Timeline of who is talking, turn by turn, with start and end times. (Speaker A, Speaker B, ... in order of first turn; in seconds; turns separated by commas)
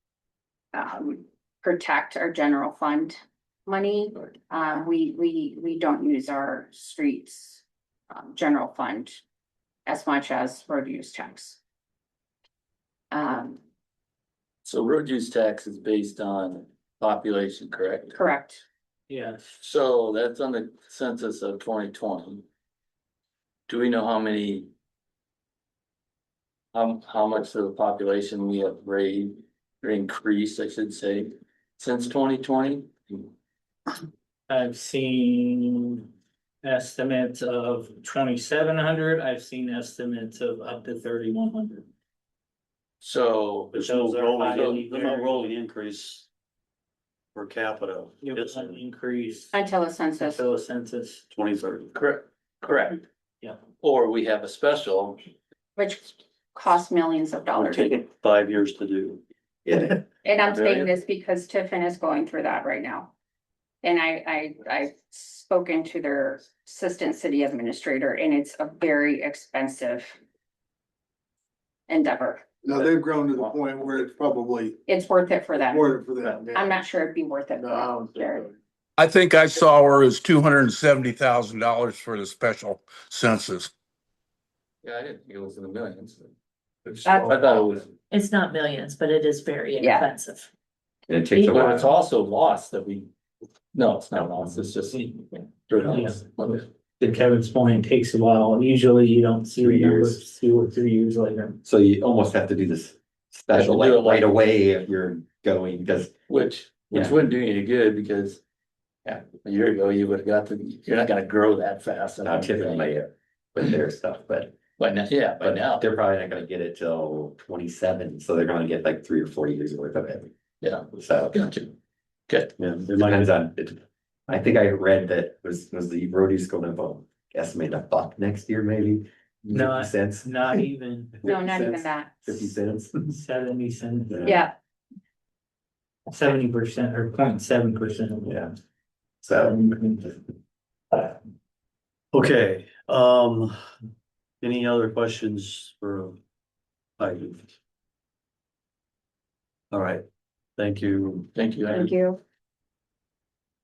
Speaker A: 0.8-3.0, Speaker A: 3.7-7.6, Speaker A: 8.1-9.2, Speaker A: 9.9-11.6, Speaker A: 13.1-13.6, Speaker B: 14.7-18.2, Speaker A: 18.1-18.6, Speaker C: 19.1-19.5, Speaker B: 19.6-22.4, Speaker B: 23.7-24.7, Speaker B: 26.7-33.3, Speaker C: 34.5-36.0, Speaker C: 36.6-41.9, Speaker B: 43.0-43.8, Speaker C: 43.7-45.5, Speaker D: 43.8-46.3, Speaker B: 44.5-44.8, Speaker D: 47.3-48.8, Speaker C: 48.2-49.5, Speaker A: 49.6-50.2, Speaker C: 50.1-51.2, Speaker D: 51.3-51.9, Speaker B: 51.9-53.0, Speaker B: 53.8-55.2, Speaker A: 55.8-57.8, Speaker D: 57.6-59.2, Speaker E: 59.6-60.0, Speaker A: 60.2-63.1, Speaker B: 60.4-61.0, Speaker A: 63.9-70.0, Speaker A: 71.9-72.3, Speaker F: 72.6-74.8, Speaker B: 72.9-73.5, Speaker A: 74.9-75.9, Speaker F: 75.4-78.5, Speaker A: 76.5-78.4, Speaker G: 79.0-83.7, Speaker B: 84.8-86.3, Speaker B: 86.9-87.9, Speaker A: 87.0-87.3, Speaker H: 88.1-90.5, Speaker A: 89.8-90.1, Speaker E: 91.1-91.9, Speaker B: 91.5-93.1, Speaker B: 93.7-96.7, Speaker C: 95.8-96.2, Speaker C: 97.0-101.6, Speaker E: 99.6-100.2, Speaker E: 101.6-106.2, Speaker B: 103.5-104.3, Speaker B: 106.3-108.4, Speaker E: 106.9-107.2, Speaker B: 109.0-112.9, Speaker E: 112.2-114.6, Speaker B: 114.8-115.8, Speaker E: 115.4-120.3, Speaker B: 120.6-121.7, Speaker E: 120.9-121.6, Speaker D: 122.6-123.3, Speaker E: 122.8-130.6, Speaker C: 129.5-131.2, Speaker E: 131.2-133.2, Speaker A: 131.2-132.5, Speaker C: 133.1-134.3, Speaker E: 134.1-134.4, Speaker A: 134.3-134.5, Speaker C: 136.1-138.4, Speaker E: 138.3-138.5, Speaker E: 139.2-139.6, Speaker C: 139.4-140.1, Speaker D: 142.1-143.6, Speaker D: 144.4-146.2, Speaker D: 147.0-147.5, Speaker D: 149.7-150.1, Speaker D: 150.6-151.3, Speaker B: 151.3-151.9, Speaker A: 151.7-152.2